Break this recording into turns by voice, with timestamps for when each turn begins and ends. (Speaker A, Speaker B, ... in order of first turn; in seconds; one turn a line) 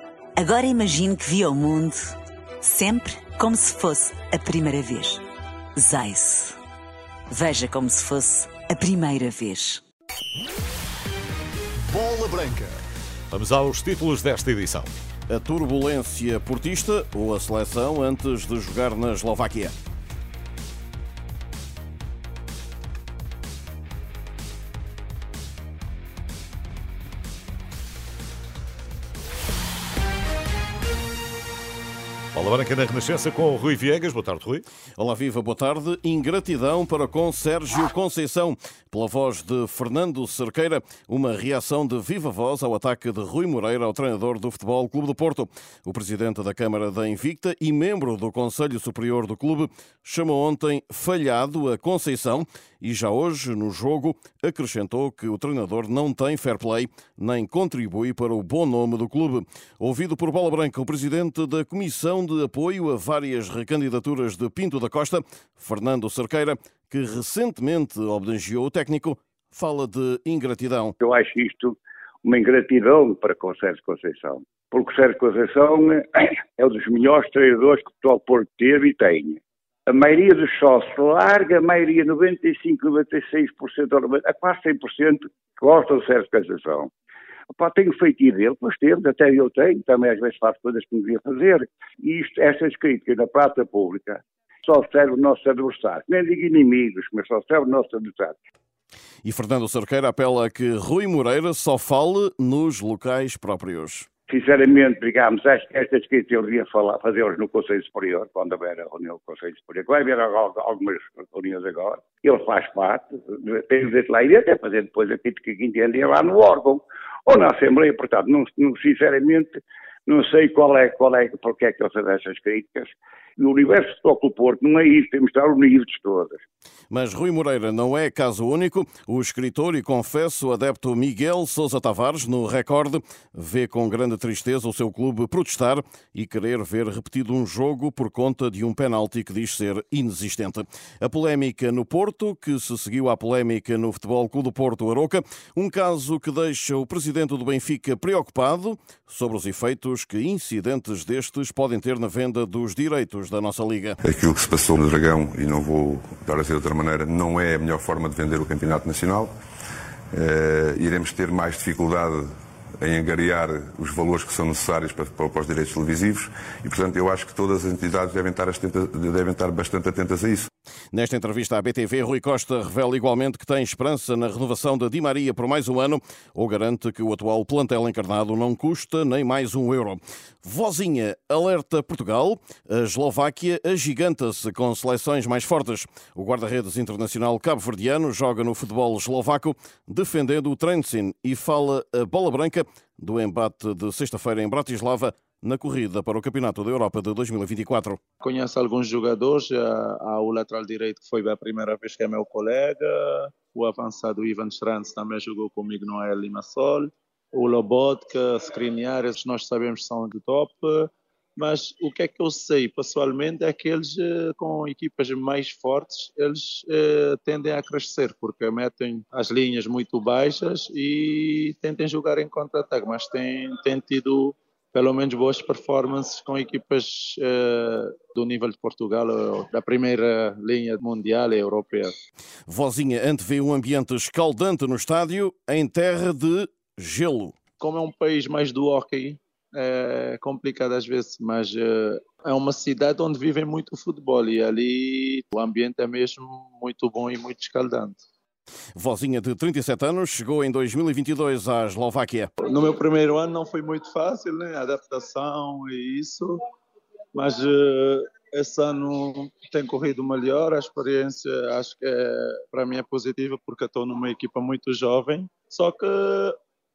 Speaker A: 0.4-5.2
Speaker A: 5.8-6.6
Speaker A: 7.3-9.8
Speaker B: 11.9-12.7
Speaker B: 13.3-14.9
Speaker C: 15.3-19.7
Speaker B: 32.3-34.6
Speaker C: 35.0-71.0
Speaker D: 71.0-86.9
Speaker D: 87.5-98.4
Speaker C: 99.2-104.1
Speaker D: 104.3-126.4
Speaker C: 126.9-154.0
Speaker E: 154.0-159.3
Speaker E: 160.1-162.3
Speaker E: 162.8-170.5
Speaker C: 170.9-198.0
Speaker F: 198.2-231.9
Speaker C: 232.5-237.3
Speaker F: 237.6-248.0
Speaker C: 248.8-252.3
Speaker F: 252.4-256.4
Speaker F: 257.1-266.4